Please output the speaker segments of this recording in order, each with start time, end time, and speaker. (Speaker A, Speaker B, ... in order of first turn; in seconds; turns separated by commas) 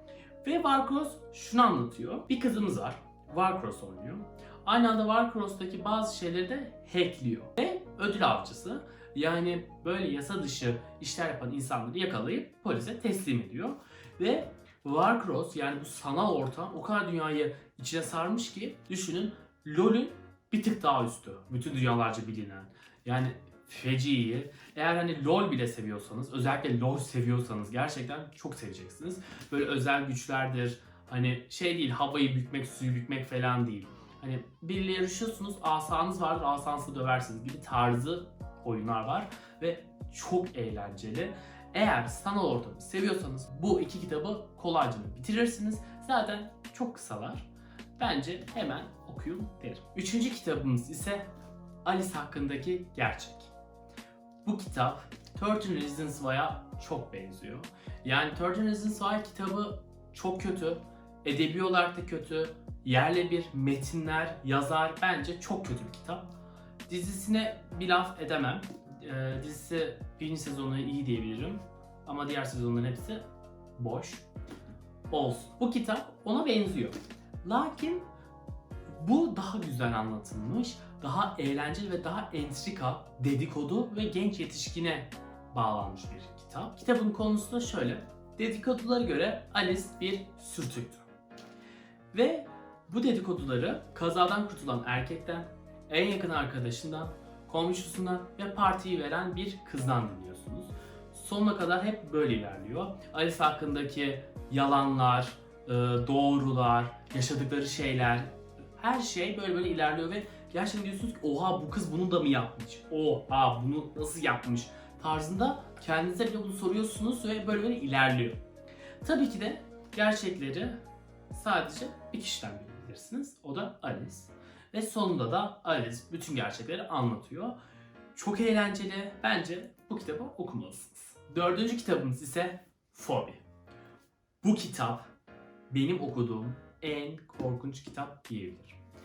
Speaker A: 0.4-51.3, Speaker A: 51.8-53.5, Speaker A: 54.4-66.3, Speaker A: 66.9-73.2, Speaker A: 73.8-74.2, Speaker A: 75.1-78.1, Speaker A: 78.9-91.1, Speaker A: 92.1-118.4, Speaker A: 119.0-127.6, Speaker A: 128.1-133.4, Speaker A: 134.4-135.1, Speaker A: 135.7-138.8